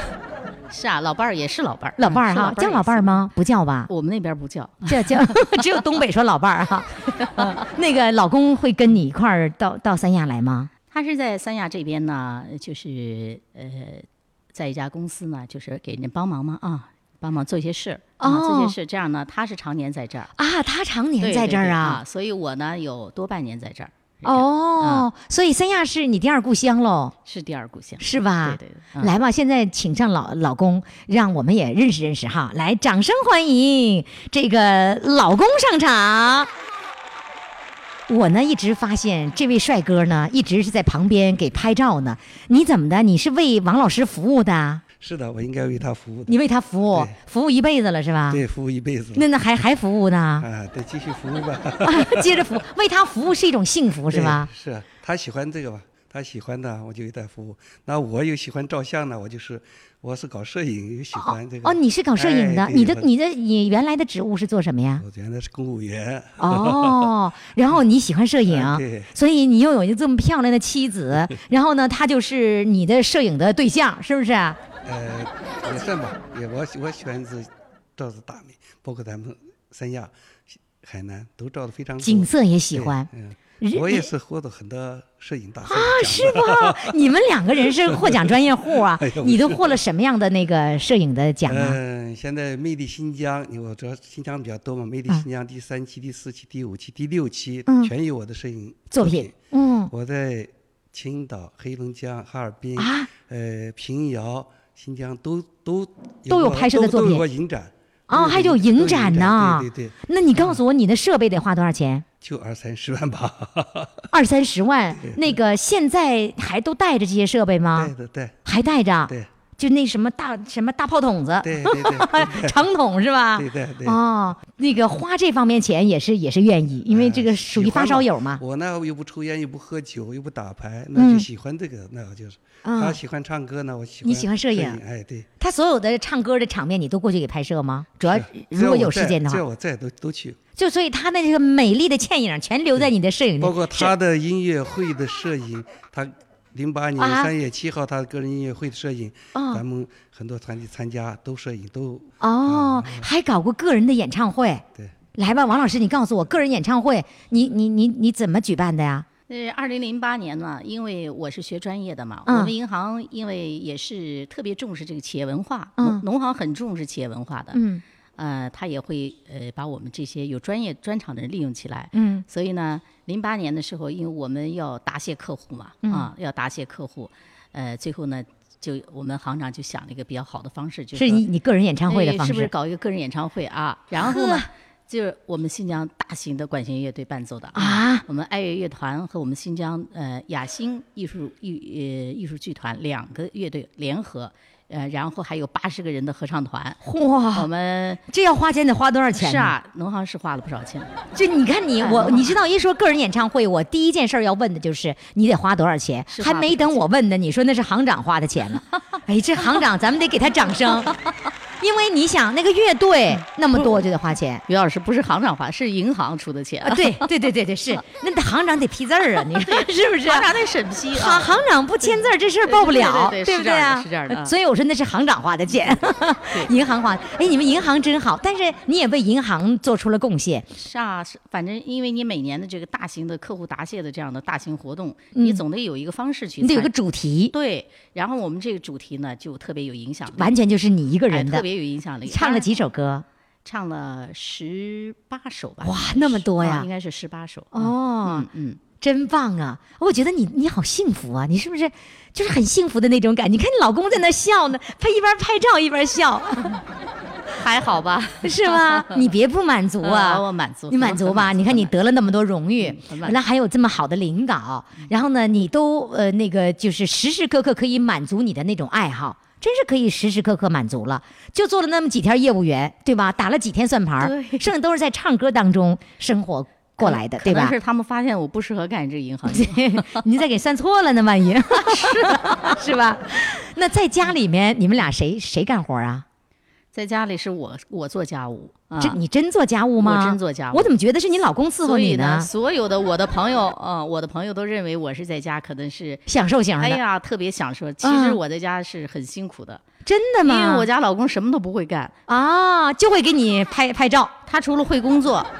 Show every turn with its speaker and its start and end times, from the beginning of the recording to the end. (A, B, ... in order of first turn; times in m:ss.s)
0:00.7-0:03.2 A
0:02.0-0:03.9 B
0:03.9-0:05.4 A
0:04.8-0:10.7 B
0:07.2-0:07.6 A
0:10.9-0:20.3 A
0:18.2-0:18.7 B
0:20.4-0:22.0 B
0:21.2-0:25.0 A
0:24.2-0:27.1 B
0:27.2-0:29.1 A
0:28.0-0:36.5 B
0:38.1-0:44.8 B
0:45.0-0:46.4 C
0:46.3-0:48.4 B
0:48.3-0:49.2 C
0:49.1-0:50.4 B
0:50.4-0:52.5 C
0:51.8-0:54.5 B
0:54.1-1:03.1 C
1:01.1-1:05.0 B
1:05.0-1:07.1 C
1:06.4-1:14.6 B
1:08.5-1:09.1 C
1:14.8-1:26.9 C
1:22.0-1:23.1 B
1:23.6-1:24.1 B
1:25.6-1:31.8 B
1:27.6-1:29.8 C
1:31.5-1:39.3 C
1:37.7-1:37.9 B
1:38.9-1:39.9 B
1:39.9-1:50.6 C
1:42.8-1:43.1 B
1:46.3-1:47.2 B
1:48.1-1:52.0 B
1:52.2-1:53.9 C
1:54.1-1:57.9 B
1:55.0-1:55.3 C
1:57.7-1:58.4 C
1:58.4-2:08.4 B
2:01.4-2:02.6 C
2:03.3-2:04.0 C
2:06.9-2:15.3 C
2:10.9-2:11.2 B
2:12.6-2:13.0 B
2:14.0-2:14.8 B
2:15.4-2:19.4 B
2:18.0-2:20.4 C
2:20.6-2:23.9 B
2:22.8-2:33.1 C
2:27.0-2:27.3 B
2:29.3-2:29.6 B
2:32.2-2:34.6 B
2:35.1-2:39.1 B
2:39.3-2:47.6 A
2:42.2-2:42.5 B
2:45.8-2:46.0 B
2:47.5-2:47.8 B
2:48.2-3:01.2 A
2:51.9-2:52.2 B
2:55.8-2:56.1 B
3:00.9-3:02.5 B
3:01.9-3:16.8 A
3:04.0-3:04.4 B
3:07.5-3:08.0 B
3:16.8-3:17.5 B
3:17.3-3:18.0 A
3:18.1-3:19.6 B
3:19.1-3:20.9 A
3:21.1-3:30.9 B
3:21.8-3:22.3 A
3:26.1-3:26.8 A
3:31.6-3:34.4 B
3:34.5-3:37.1 A
3:36.6-3:40.3 B
3:39.4-3:44.3 A
3:40.9-3:50.5 B
3:45.6-3:46.5 A
3:50.5-3:56.7 A
3:55.1-3:55.4 B
3:56.4-3:57.3 B
3:57.3-4:00.3 A
4:00.1-4:01.4 B
4:01.1-4:02.5 A
4:02.0-4:03.0 B
4:03.4-4:08.6 A
4:05.6-4:06.7 B
4:07.5-4:08.3 B
4:08.8-4:16.6 B
4:17.3-4:19.0 A
4:18.2-4:37.6 B
4:19.8-4:21.7 A
4:22.6-4:23.2 A
4:34.0-4:34.5 A
4:36.8-4:40.0 A
4:39.2-4:46.0 B
4:41.5-4:42.6 A
4:46.7-4:49.0 A
4:48.8-4:52.3 B
4:49.8-4:50.7 A
4:51.6-4:59.6 A
4:56.1-4:56.8 B
4:57.8-4:58.2 B
4:59.8-5:00.7 B
5:00.2-5:01.9 A
5:02.1-5:04.1 B
5:04.3-5:05.3 A